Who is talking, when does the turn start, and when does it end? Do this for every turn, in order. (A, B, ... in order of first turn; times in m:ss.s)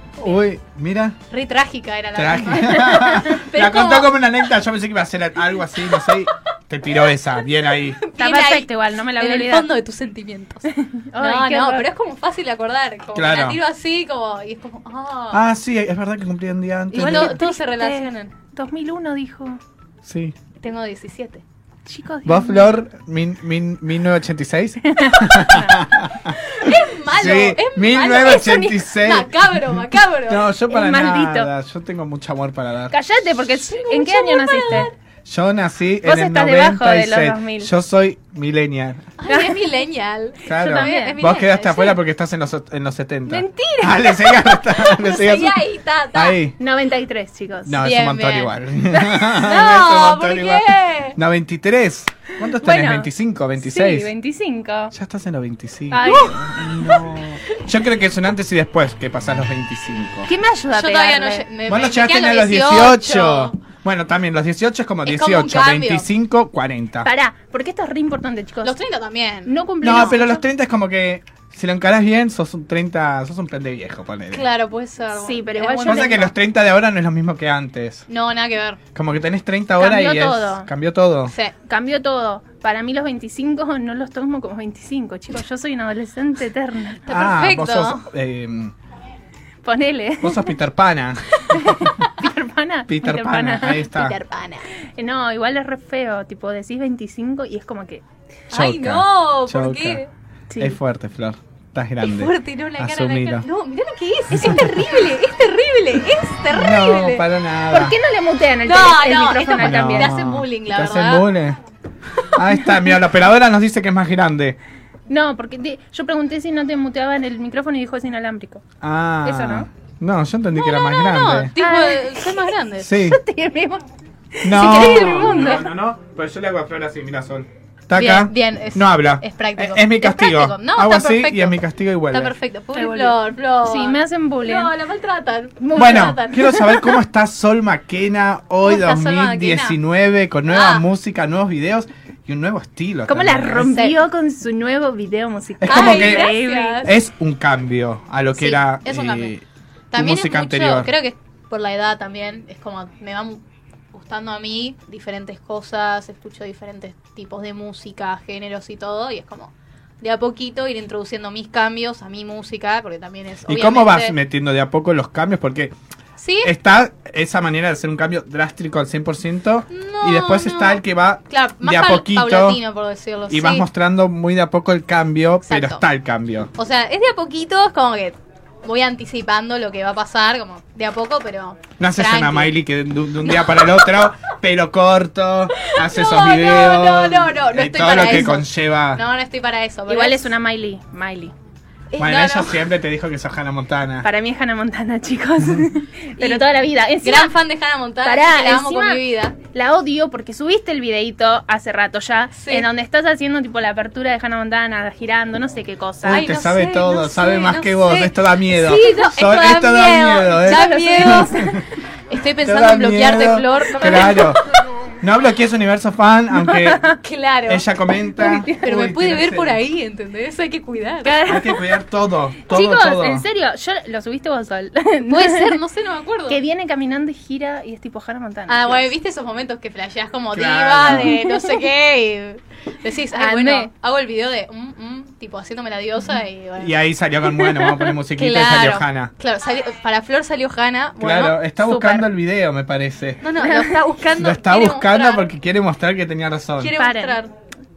0:00.2-0:01.2 A
0:01.3-0:04.2 B
0:02.2-0:08.0 A
0:08.0-0:15.4 B
0:08.2-0:09.7 C
0:10.8-0:11.9 C
0:13.1-0:13.6 A
0:15.3-0:17.4 A
0:16.9-0:19.6 C
0:17.0-0:18.4 B
0:20.0-0:20.4 A
0:20.6-0:21.4 B
0:21.8-0:22.8 C
0:22.2-0:33.0 A
0:24.8-0:25.9 C
0:26.6-0:30.5 B
0:30.7-0:31.5 C
0:32.9-0:34.9 C
0:33.5-0:34.9 B
0:35.2-0:39.1 A
0:36.0-0:37.7 C
0:39.2-0:42.0 B
0:39.3-0:39.7 C
0:40.4-0:45.6 A
0:40.5-0:41.2 C
0:43.3-0:44.7 C
0:44.8-0:46.4 B
0:46.1-0:46.6 A
0:46.6-0:47.8 C
0:47.6-0:54.1 A
0:47.8-0:48.5 B
0:49.2-0:51.2 B
0:52.4-0:54.9 C
0:54.9-1:00.3 A
0:55.9-0:56.4 C
0:56.0-0:57.0 B
1:00.3-1:01.5 C
1:00.7-1:03.6 B
1:01.7-1:07.1 A
1:05.0-1:06.1 B
1:07.0-1:08.8 C
1:08.6-1:10.1 B
1:09.4-1:10.4 C
1:09.8-1:14.4 A
1:14.3-1:16.3 B
1:15.2-1:16.3 C
1:15.8-1:18.0 A
1:18.1-1:18.8 B
1:18.9-1:21.3 A
1:19.8-1:20.6 C
1:21.3-1:21.5 B
1:21.7-1:27.0 C
1:27.1-1:28.0 B
1:27.1-1:28.7 A
1:29.6-1:30.6 C
1:30.2-1:31.8 A
1:31.5-1:33.8 C
1:32.9-1:34.2 A
1:33.9-1:34.7 B
1:35.0-1:38.0 C
1:38.5-1:40.1 B
1:38.5-1:40.0 A
1:40.5-1:40.8 C
1:40.6-1:43.5 A
1:42.0-1:47.2 B
1:44.4-1:44.7 A
1:44.4-1:45.0 C
1:46.5-1:48.0 A
1:47.7-1:50.1 C
1:48.6-1:51.3 B
1:49.6-1:51.6 A
1:52.2-1:54.6 A
1:55.1-1:58.6 C
1:58.8-2:01.5 A
1:59.2-1:59.7 C
2:00.5-2:02.9 B
2:01.6-2:05.7 C
2:02.8-2:03.2 A
2:04.4-2:12.3 A
2:04.5-2:05.7 B
2:07.9-2:16.7 B
2:12.7-2:14.7 C
2:15.6-2:16.8 C
2:15.7-2:23.8 A
2:18.6-2:19.8 B
2:20.5-2:20.9 B
2:23.1-2:26.8 C
2:23.7-2:24.0 B
2:25.6-2:30.9 A
2:25.6-2:26.9 B
2:28.4-2:29.3 B
2:29.9-2:44.2 B
2:43.5-2:45.7 A
2:46.2-2:46.5 B
2:46.4-2:52.6 A
2:49.7-2:53.6 B
2:53.3-2:56.5 A
2:55.4-2:55.8 B
2:56.5-3:02.6 B
3:01.8-3:09.0 A
3:03.2-3:03.9 B
3:05.6-3:10.3 B
3:09.9-3:11.3 C
3:11.9-3:12.7 B
3:12.0-3:14.1 A
3:14.0-3:17.3 C
3:16.2-3:16.5 B
3:17.0-3:19.4 B
3:18.0-3:26.3 C
3:22.3-3:22.7 B
3:26.0-3:31.6 A
3:26.0-3:31.5 B
3:30.4-3:31.5 C
3:32.1-3:34.4 B
3:32.4-3:34.4 A
3:35.0-3:36.9 A
3:36.3-3:37.0 C
3:37.0-3:37.7 B
3:37.5-3:39.6 A
3:38.2-3:41.2 B
3:41.0-3:41.7 C
3:41.2-3:43.2 A
3:42.5-3:45.6 C
3:45.1-3:46.4 B
3:46.3-3:48.9 C
3:48.5-3:56.7 B
3:50.3-3:51.2 A
3:50.9-3:51.5 C
3:53.1-3:53.7 C
3:56.6-3:59.1 A
3:57.4-3:57.9 C
3:58.1-4:02.0 B
4:01.0-4:03.2 A
4:03.2-4:05.3 B
4:03.4-4:04.0 C
4:04.1-4:06.7 A
4:06.6-4:07.3 B
4:06.8-4:07.2 C